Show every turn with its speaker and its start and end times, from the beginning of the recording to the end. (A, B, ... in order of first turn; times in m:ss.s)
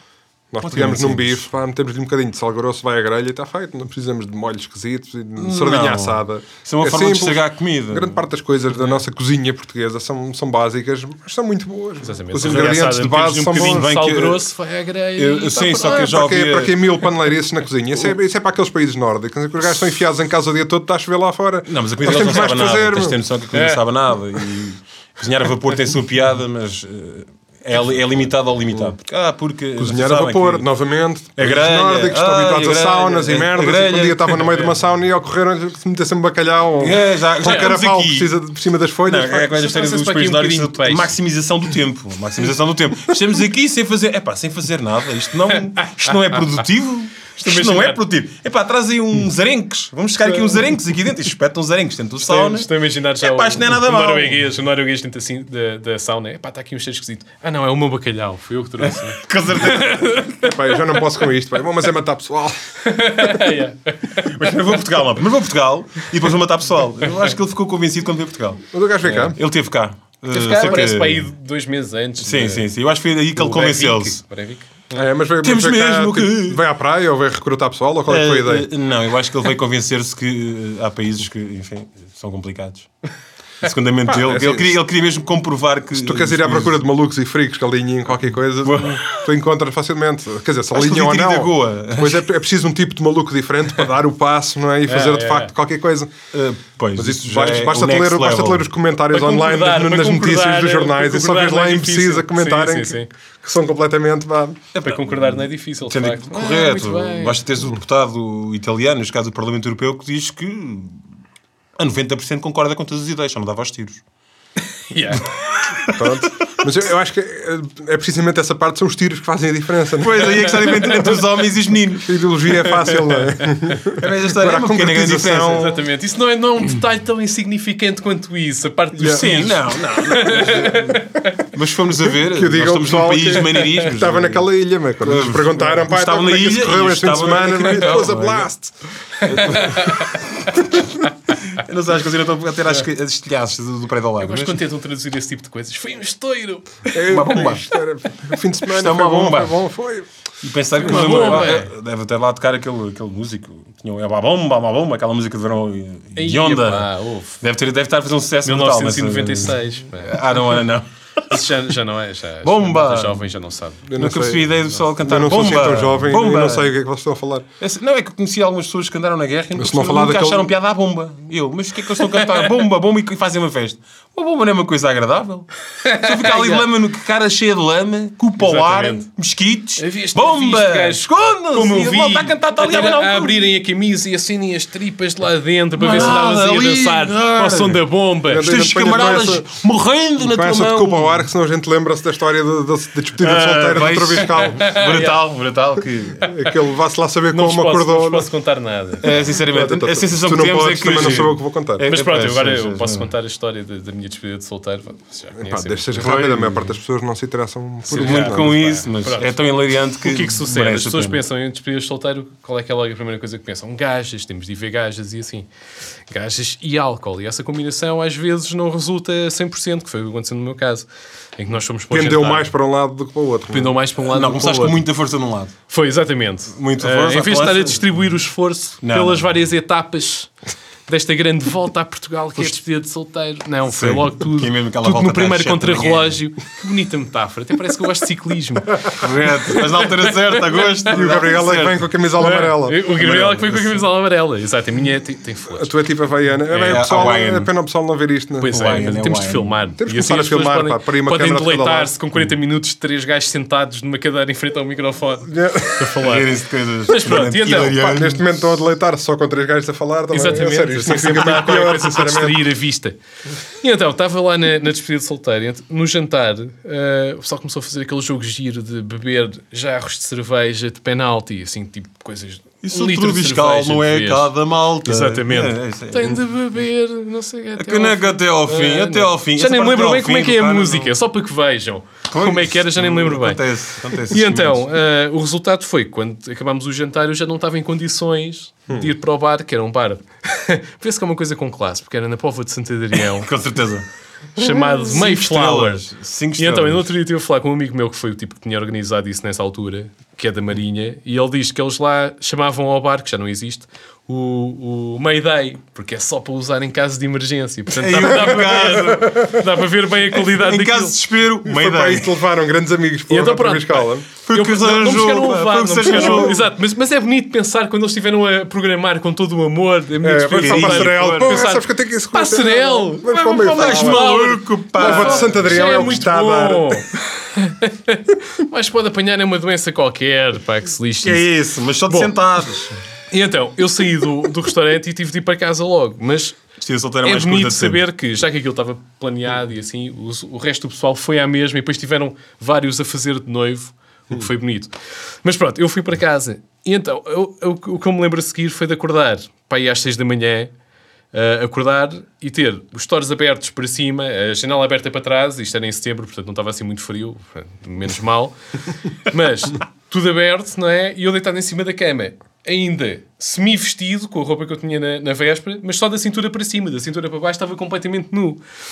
0:00.5-0:13.9 A
0:00.6-0:01.4 B
0:05.4-0:08.2 B
0:12.0-0:16.2 C
0:12.4-0:14.5 B
0:15.2-0:16.9 B
0:15.7-0:23.2 A
0:21.7-0:30.7 B
0:23.5-0:23.8 C
0:29.8-0:39.6 A
0:31.4-0:34.7 B
0:36.8-0:38.3 B
0:39.0-0:54.4 B
0:39.5-0:41.1 C
0:45.5-0:46.4 C
0:47.4-0:48.0 C
0:50.3-0:50.6 C
0:52.2-1:01.0 C
0:58.8-1:00.2 B
1:00.4-1:02.6 A
1:02.8-1:04.4 C
1:04.2-1:08.6 B
1:08.7-1:09.4 A
1:09.0-1:09.3 C
1:09.3-1:11.3 B
1:10.3-1:12.7 C
1:12.2-1:14.2 B
1:13.4-1:15.0 C
1:14.9-1:18.7 A
1:15.4-1:16.6 B
1:18.1-1:22.9 B
1:23.6-1:26.8 B
1:24.0-1:24.8 A
1:25.9-1:36.1 A
1:28.6-1:29.2 B
1:30.7-1:32.2 B
1:34.9-1:35.5 C
1:36.3-1:38.7 B
1:37.0-1:44.6 A
1:39.1-1:43.1 C
1:44.7-1:51.0 B
1:44.8-1:47.4 C
1:51.8-1:54.0 B
1:54.9-1:55.3 C
1:55.2-1:56.2 B
1:55.9-2:00.5 A
2:00.0-2:02.1 B
2:00.5-2:01.2 C
2:02.0-2:05.8 A
2:02.8-2:03.8 C
2:04.0-2:05.7 B
2:05.5-2:11.5 C
2:09.0-2:09.5 A
2:09.0-2:14.4 B
2:12.2-2:18.7 A
2:15.0-2:18.5 B
2:19.2-2:20.2 C
2:19.2-2:24.6 B
2:24.2-2:26.8 C
2:26.9-2:30.1 A
2:27.1-2:27.6 B
2:28.7-2:29.6 B
2:30.4-2:36.9 B
2:30.8-2:31.7 C
2:36.2-2:37.4 C
2:37.4-2:41.6 B
2:38.4-2:40.6 C
2:41.3-2:43.8 C
2:42.4-2:43.2 B
2:43.8-2:47.4 A
2:44.0-2:46.7 B
2:47.6-3:03.5 B
2:49.5-2:50.5 A
2:52.2-2:52.4 C
2:55.8-2:56.6 C
2:58.4-2:59.1 C
2:59.8-3:08.5 C
3:05.8-3:07.8 B
3:08.3-3:09.5 A
3:08.4-3:11.3 B
3:10.2-3:14.6 A
3:13.2-3:16.3 B
3:14.3-3:15.2 C
3:16.2-3:18.3 A
3:17.3-3:19.1 C
3:19.0-3:23.1 B
3:19.2-3:21.9 A
3:21.8-3:26.1 C
3:25.4-3:28.6 A
3:25.9-3:26.8 B
3:27.9-3:31.2 B
3:27.9-3:29.3 C
3:30.0-3:35.5 C
3:36.1-3:42.5 C
3:41.9-3:43.7 A
3:43.5-3:44.8 C
3:44.0-3:45.5 B
3:45.7-3:50.3 C
3:46.6-3:47.8 B
3:48.8-3:49.2 B
3:50.9-4:00.8 C
3:53.7-3:56.2 B
3:58.9-4:01.8 B
4:00.9-4:02.8 A
4:02.2-4:05.7 C
4:03.0-4:03.8 B
4:05.5-4:08.8 A
4:06.5-4:07.5 B
4:08.4-4:16.3 C
4:08.5-4:09.5 B
4:09.8-4:11.9 A
4:15.3-4:15.9 A
4:16.0-4:18.3 B
4:16.9-4:18.0 C
4:17.8-4:22.4 A
4:20.1-4:23.0 C
4:23.6-4:34.3 C
4:32.6-4:36.2 B
4:34.8-4:43.4 C
4:37.6-4:41.0 B
4:42.1-4:44.6 B
4:44.1-4:53.3 C
4:52.9-4:53.8 B
4:54.4-5:11.0 C
4:54.4-4:56.9 B
5:07.7-5:09.4 B
5:10.1-5:12.1 B
5:11.4-5:14.1 A
5:13.1-5:31.2 C
5:14.2-5:16.4 B
5:15.9-5:16.4 A
5:20.0-5:24.1 A
5:20.3-5:21.5 B
5:23.5-5:25.6 B
5:24.8-5:26.8 A
5:31.0-5:32.7 B
5:31.8-5:32.2 C
5:33.1-5:36.4 C
5:36.6-5:37.8 B
5:37.0-5:44.7 C
5:45.2-5:50.5 C
5:51.1-5:58.4 C
5:58.9-6:08.4 C